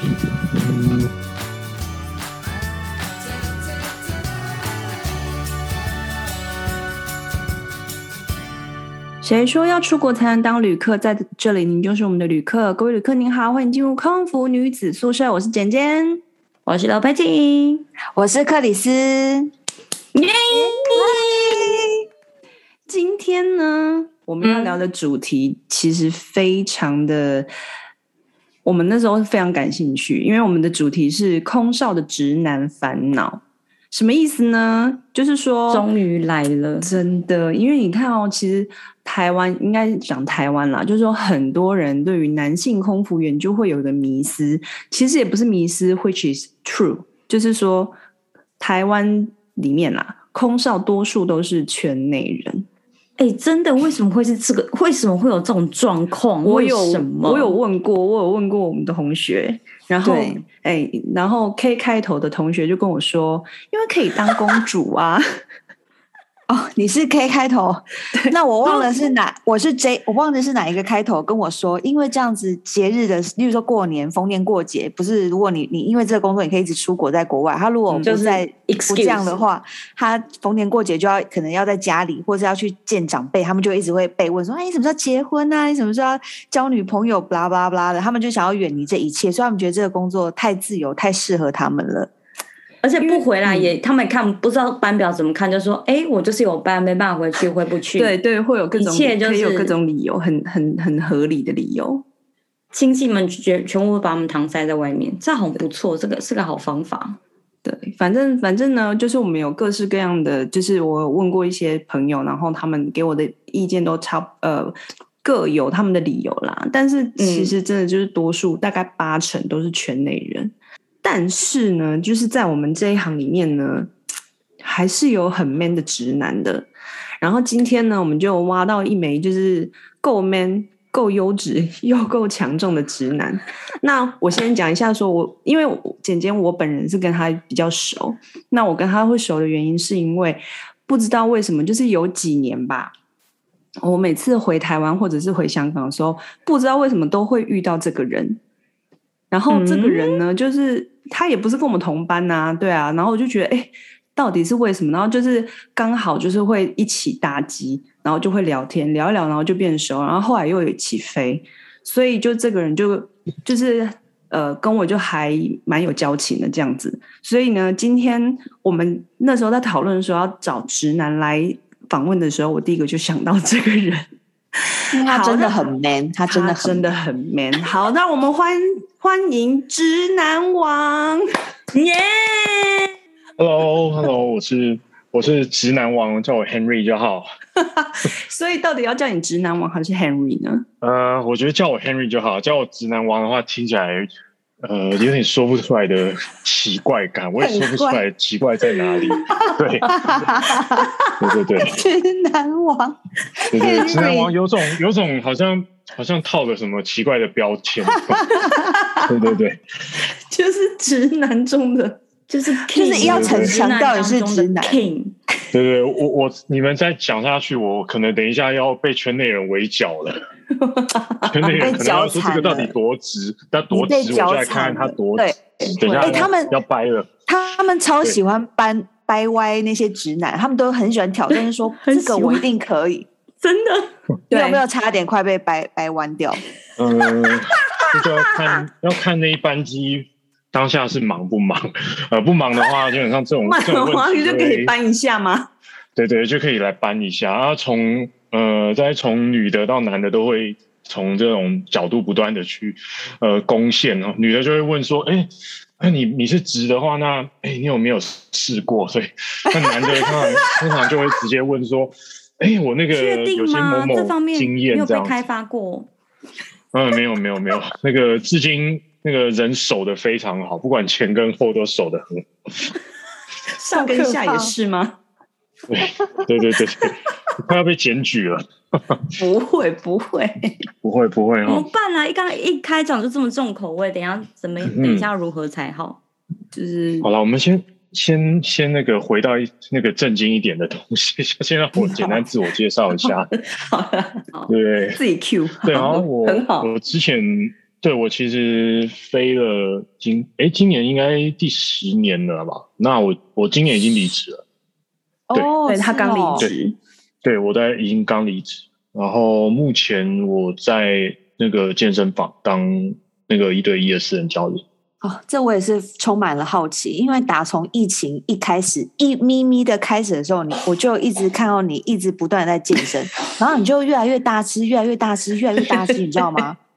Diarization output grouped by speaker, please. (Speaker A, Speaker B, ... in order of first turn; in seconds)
Speaker A: 0.6-1.1, 183.4-187.2, 190.8-194.1, 194.6-200.4, 201.2-201.8, 203.5-208.3, 208.9-209.6, 213.0-213.5, 215.5-220.2, 221.2-227.1, 236.8-244.7, 245.9-265.1, 266.7-272.7, 275.7-279.1, 280.8-281.7, 284.6-285.1, 287.0-293.3, 294.5-295.0, 295.6-304.4, 307.2-314.6
Speaker B: 9.2-16.2, 22.9-27.5, 28.6-35.9, 36.8-48.0, 48.6-52.7, 56.4-65.2, 93.0-93.8, 98.0-102.0, 107.6-123.9, 124.6-126.7, 127.2-142.9, 143.8-148.4, 149.3-174.1, 174.7-175.6, 176.3-181.2, 187.6-190.6, 208.4-209.1, 210.3-212.0, 212.9-213.4, 220.5-221.5, 225.8-226.4, 234.3-234.6, 243.4-245.5, 273.5-275.0, 279.2-280.6, 286.5-287.1, 291.8-292.2, 293.0-294.3, 295.0-296.7, 305.6-306.8
Speaker C: 16.7-17.9, 20.1-21.8, 24.4-24.8, 35.7-36.9, 53.2-57.5, 78.0-79.4, 92.8-98.2, 98.8-99.8, 102.7-107.2, 117.2-117.5, 149.5-150.2, 181.7-182.9, 212.3-215.2, 231.3-232.4, 233.4-233.9, 237.8-238.6, 262.9-265.9, 281.4-286.0
Speaker D: 18.1-19.5, 20.9-21.7, 60.0-60.4, 66.5-92.1, 174.9-176.9, 197.4-198.0, 199.0-200.9, 201.6-204.3, 212.7-214.9, 221.4-222.7, 223.7-226.5, 227.3-233.1, 234.3-236.4, 273.8-274.5, 305.3-306.4, 315.0-326.6